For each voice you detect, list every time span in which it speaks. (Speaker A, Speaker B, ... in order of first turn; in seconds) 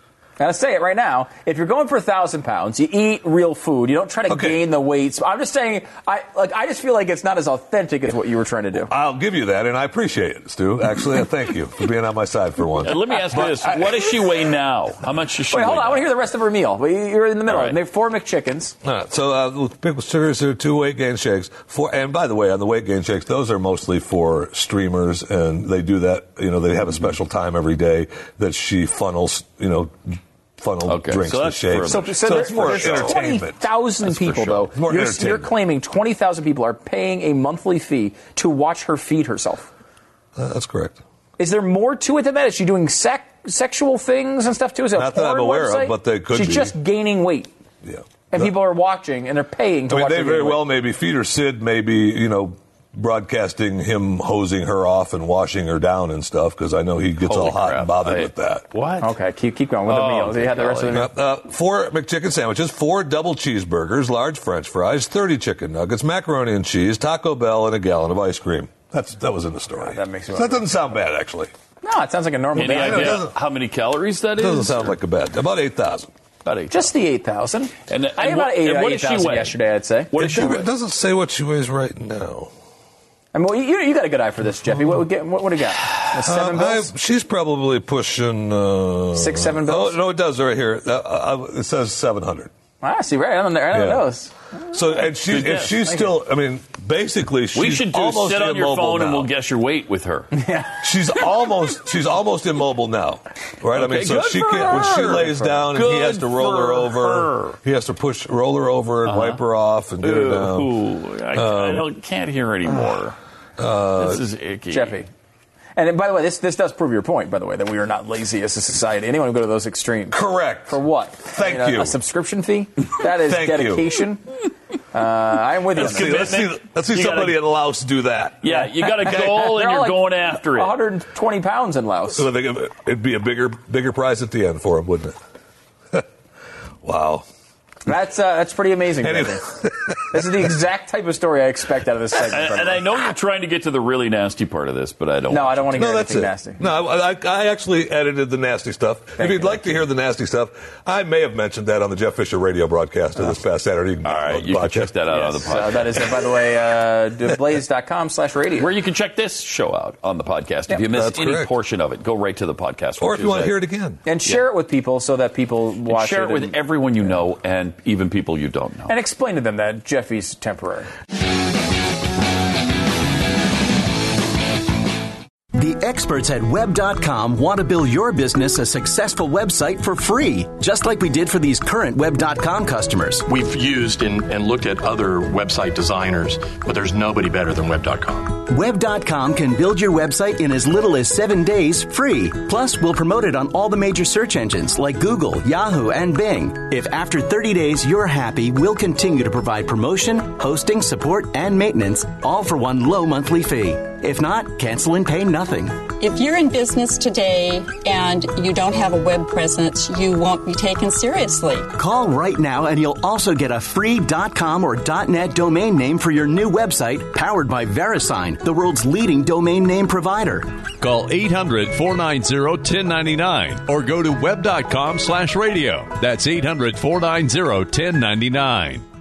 Speaker A: 0.4-8.9, 15.5-18.8, 31.9-39.7, 41.4-47.5, 48.3-50.7, 59.0-61.1, 69.8-70.8, 71.8-73.2, 76.7-80.7, 83.3-86.9, 89.1-90.0, 92.8-95.1, 95.8-96.2, 100.3-101.0, 104.8-105.6, 114.7-115.1, 115.8-124.2, 124.9-126.5, 128.5-132.3, 137.9-142.9, 145.3-146.7, 149.2-149.9, 155.1-158.7, 164.1-166.6, 168.9-170.9
Speaker B: 4.3-4.6, 8.9-13.9, 18.8-33.6, 34.8-35.5, 40.4-41.0, 45.0-46.7, 47.8-48.5, 49.9-58.7, 60.9-71.5, 72.7-73.3, 74.3-76.1, 80.1-82.5, 86.2-92.5, 93.7-94.1, 94.7-99.3, 100.8-110.7, 111.3-111.9, 113.6-114.2, 120.1-122.0, 123.1-123.9, 125.8-128.5, 132.2-135.2, 136.8-137.3, 139.0-139.9, 145.7-155.0, 160.9-161.5, 163.0-164.0
Speaker C: 12.8-16.1, 17.5-17.8, 30.9-33.2, 34.0-34.7, 57.2-59.1, 59.9-61.0, 72.5-75.0, 76.4-76.9, 77.9-79.5, 80.1-80.4, 95.3-95.8, 97.5-100.3, 103.7-107.6, 109.0-109.4, 110.0-113.2, 114.0-115.0, 125.7-127.5, 128.4-130.8, 142.2-145.8, 154.0-155.9, 158.6-163.6, 165.9-168.9
Speaker D: 175.5-183.2, 188.4-205.9, 211.8-220.5
Speaker E: 183.3-188.4
Speaker F: 206.0-211.7
Speaker G: 220.8-228.8